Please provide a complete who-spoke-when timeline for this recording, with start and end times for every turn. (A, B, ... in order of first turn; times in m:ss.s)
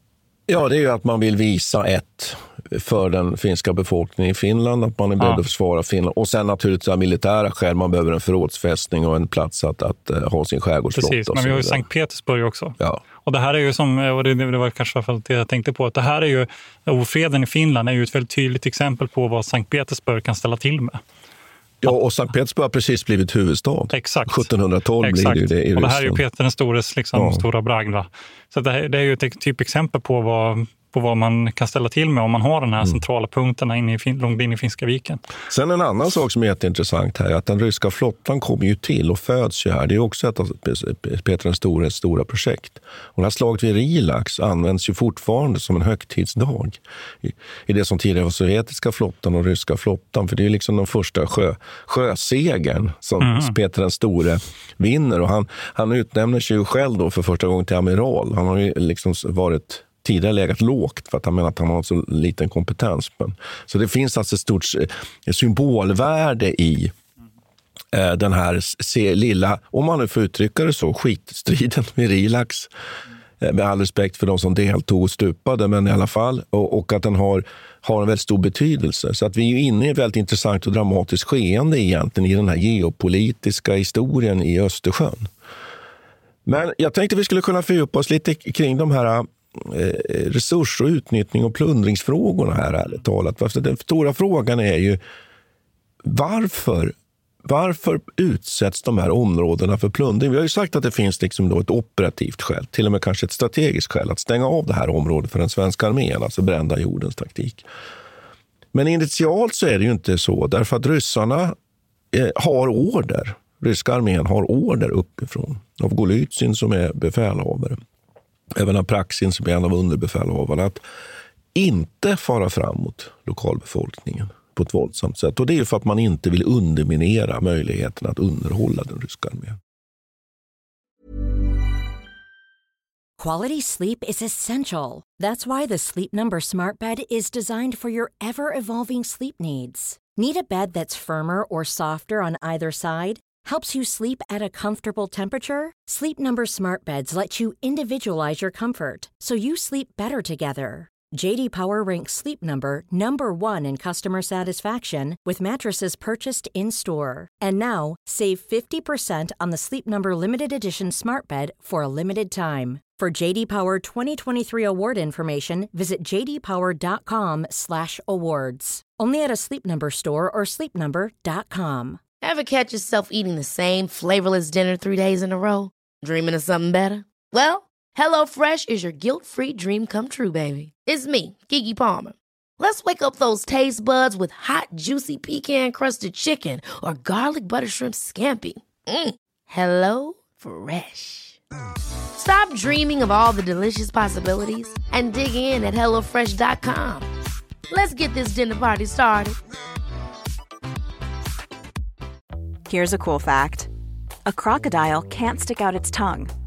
0:00.5-0:11.8 A
0:10.9-0:21.0 B
0:21.8-0:26.2 A
0:23.9-0:24.5 B
0:25.0-0:35.2 B
0:27.1-0:27.4 A
0:35.5-1:06.9 A
0:53.2-0:53.5 B
1:07.9-1:12.7 A
1:13.4-1:25.3 A
1:26.4-1:35.0 A
1:36.0-1:47.7 A
1:48.7-1:51.6 A
1:52.1-1:57.8 A
1:58.5-2:00.8 A
2:01.5-2:09.6 A
2:13.2-2:52.0 C
2:52.2-3:11.4 D
3:12.1-3:17.1 D
3:17.7-3:19.4 D
3:22.7-3:23.7 E
3:24.2-3:26.3 E